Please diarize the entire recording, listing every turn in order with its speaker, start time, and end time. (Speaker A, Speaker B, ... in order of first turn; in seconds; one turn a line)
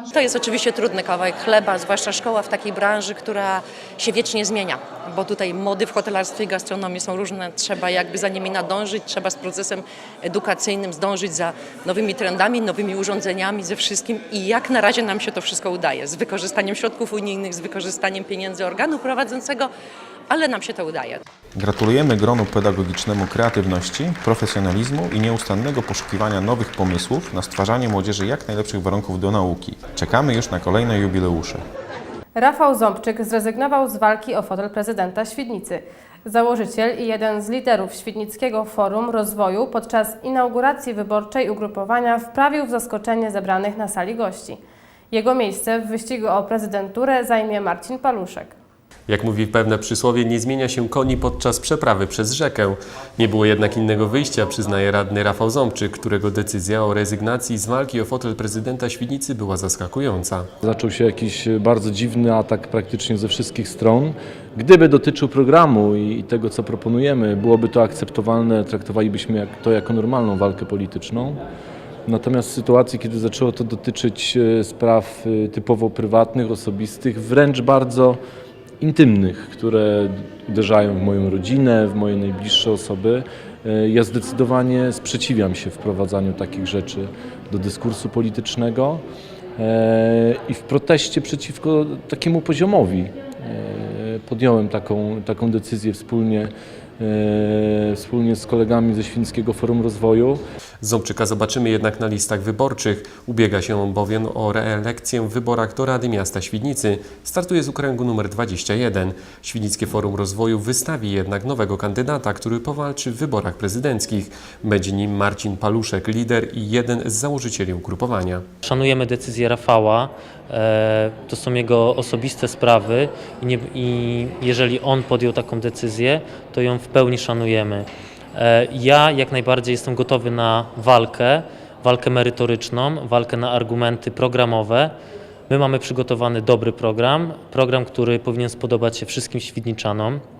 Speaker A: 0.1-19.7
Speaker A: 20.3-21.2
Speaker B: 21.6-31.6
Speaker C: 32.3-44.6
Speaker C: 45.1-48.5
Speaker D: 49.1-60.5
Speaker E: 60.6-71.4
Speaker E: 72.1-78.2
Speaker E: 78.8-89.0
Speaker E: 89.6-100.4
Speaker D: 100.8-118.4
Speaker F: 118.6-134.9
Speaker F: 135.5-140.2